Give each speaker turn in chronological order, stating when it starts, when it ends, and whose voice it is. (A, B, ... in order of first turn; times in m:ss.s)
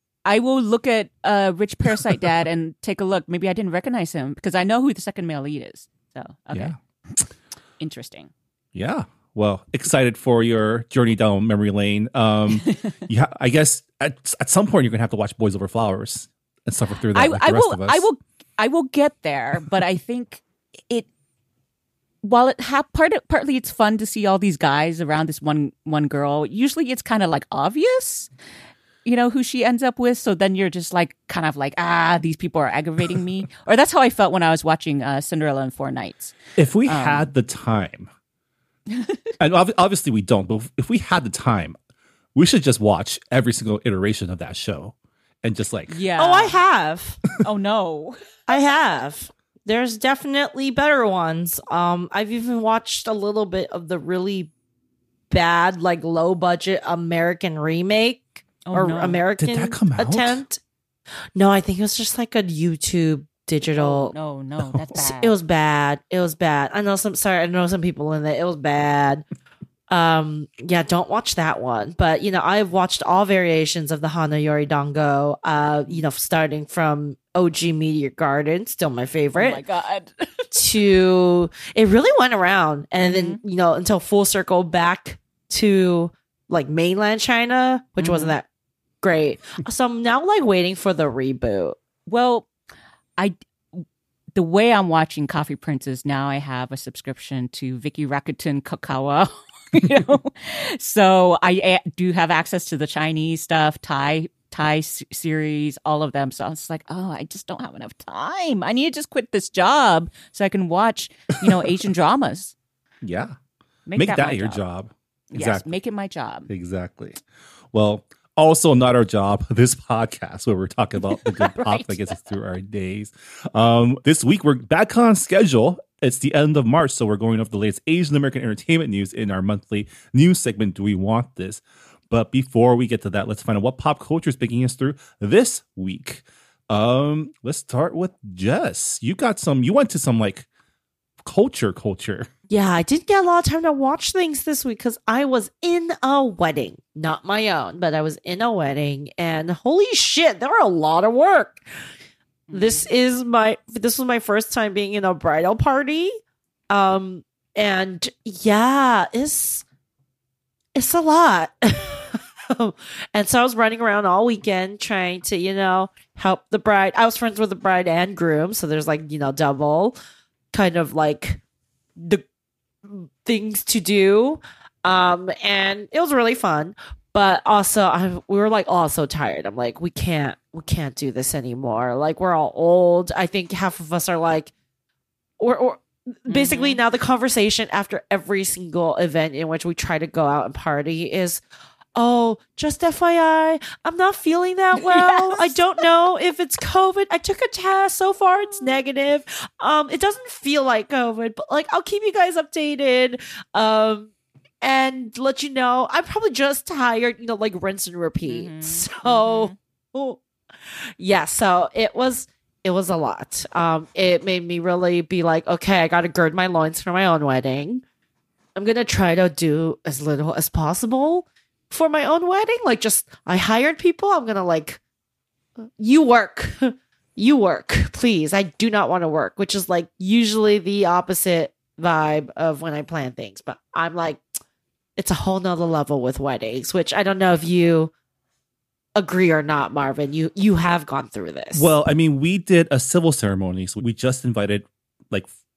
0:00.2-0:07.1 A
0:07.8-0:08.3 A
0:08.7-0:18.0 B
0:12.6-0:12.9 A
0:17.1-0:21.1 A
0:22.2-0:28.3 A
0:29.0-0:37.3 A
0:36.6-0:38.1 B
0:38.9-0:39.2 A
0:39.4-0:41.8 B
0:42.3-0:46.0 B
0:45.9-0:46.6 A
0:46.2-0:47.2 C
0:47.4-0:48.2 A
0:48.5-0:54.5 C
0:55.3-1:00.6 C
0:58.6-0:59.2 A
0:59.4-1:00.4 B
1:01.3-1:04.1 C
1:03.8-1:05.3 A
1:05.0-1:09.2 C
1:09.9-1:19.6 C
1:19.4-1:20.6 A
1:20.5-1:28.4 C
1:23.0-1:23.4 A
1:28.0-1:28.3 A
1:29.0-1:31.8 C
1:32.1-1:32.5 A
1:33.2-1:52.5 A
1:53.0-1:53.4 B
1:53.8-1:54.6 A
1:53.9-1:55.7 B
1:55.3-1:56.5 A
1:56.5-1:57.2 B
1:57.7-2:20.5 B
2:01.0-2:02.2 A
2:21.2-2:22.3 B
2:22.5-2:31.6 C
2:32.5-2:32.9 A
2:32.5-2:36.2 C
2:36.7-2:39.6 C
2:40.7-2:50.0 C
2:50.5-2:51.4 C
2:52.0-2:52.2 C
2:52.8-3:04.5 C
3:05.4-3:11.4 C
3:06.3-3:06.8 A
3:12.0-3:24.1 C
3:14.8-3:15.6 A
3:24.6-3:30.2 C
3:28.2-3:29.5 A
3:31.0-3:37.8 C
3:38.5-3:44.8 C
3:45.8-3:54.2 C
3:55.0-3:57.9 C
3:58.9-4:01.7 C
4:01.5-4:05.3 B